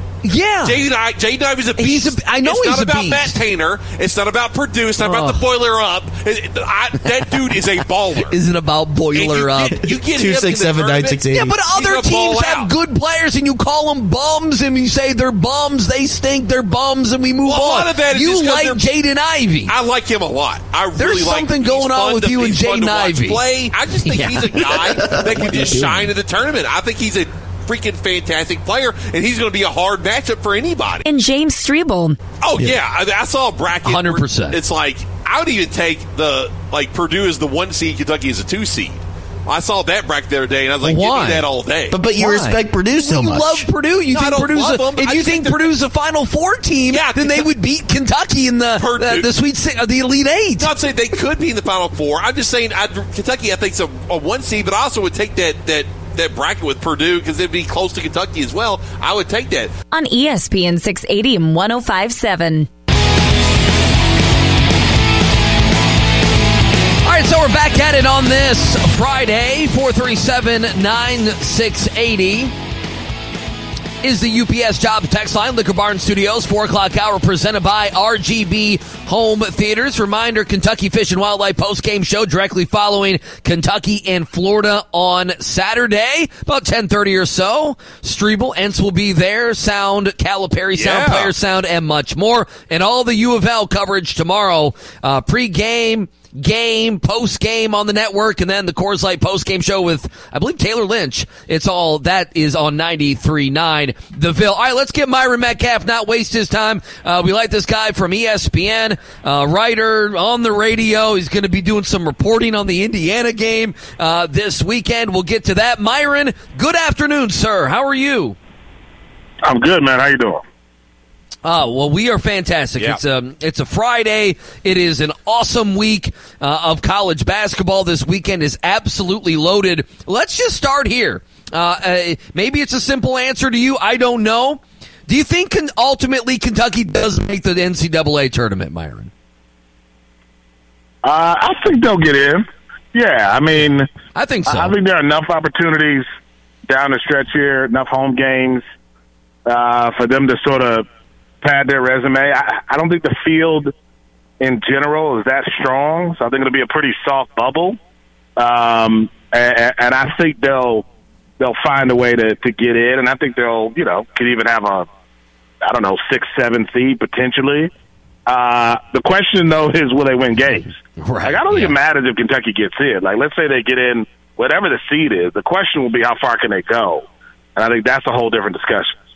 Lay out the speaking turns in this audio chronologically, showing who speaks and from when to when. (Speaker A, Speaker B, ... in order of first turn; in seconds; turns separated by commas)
Speaker A: 0.2-0.8, Speaker B: 0.6-8.4, Speaker A: 1.8-3.4, Speaker A: 5.0-5.4, Speaker A: 8.2-10.0, Speaker B: 9.1-12.7, Speaker C: 10.1-11.5, Speaker A: 11.3-19.7, Speaker B: 17.4-18.9, Speaker B: 19.7-31.0, Speaker A: 20.9-23.4, Speaker A: 24.1-25.2, Speaker D: 31.0-32.2, Speaker B: 32.4-42.0, Speaker A: 33.8-34.6, Speaker A: 40.8-41.5, Speaker C: 41.9-43.6, Speaker A: 42.1-50.7, Speaker B: 44.1-45.8, Speaker B: 46.9-47.5, Speaker B: 48.8-49.3, Speaker B: 50.6-59.7, Speaker D: 59.9-62.7, Speaker A: 67.0-72.5, Speaker A: 74.0-118.4, Speaker B: 90.7-91.3, Speaker E: 119.4-120.4, Speaker A: 121.4-139.1, Speaker E: 141.0-143.9, Speaker A: 144.1-144.7, Speaker E: 144.4-146.1, Speaker E: 146.7-148.6, Speaker E: 149.4-150.8, Speaker E: 151.4-153.7, Speaker E: 154.4-157.8, Speaker E: 158.4-160.8, Speaker E: 161.4-164.9, Speaker E: 165.6-167.7, Speaker E: 168.2-178.9, Speaker A: 171.0-171.8